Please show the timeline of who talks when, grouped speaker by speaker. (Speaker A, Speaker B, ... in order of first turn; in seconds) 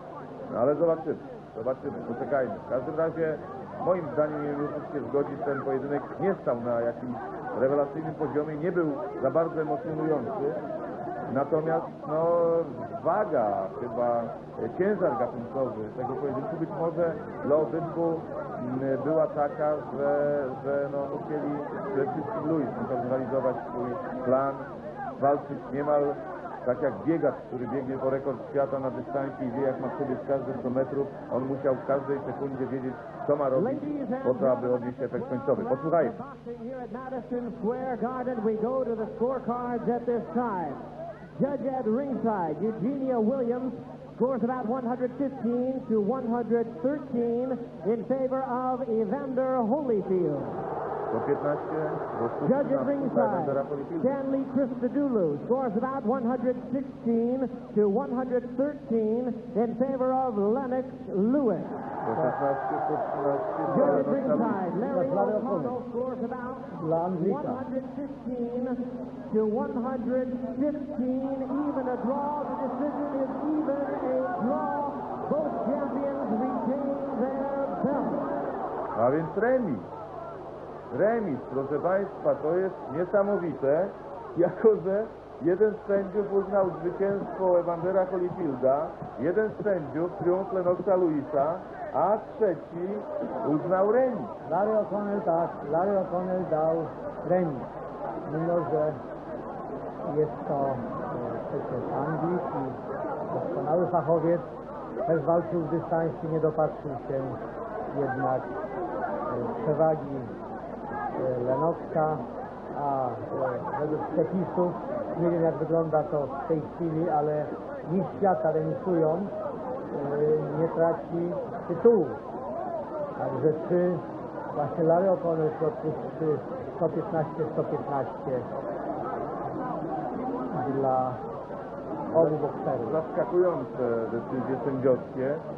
Speaker A: 0.5-10.6, 11.3-36.2, 51.1-54.1, 62.0-64.7, 79.0-79.9, 80.9-94.3, 132.1-135.4
Speaker B: 33.5-40.8, 41.4-50.6, 52.4-61.8, 63.7-78.3
Speaker C: 64.9-65.8, 66.7-67.7, 94.5-97.7, 98.3-99.0, 100.0-102.8, 103.3-104.5, 105.1-107.4, 107.9-108.5, 109.3-110.3, 111.2-119.3, 119.9-122.2, 123.2-128.5, 130.5-131.2, 132.1-133.0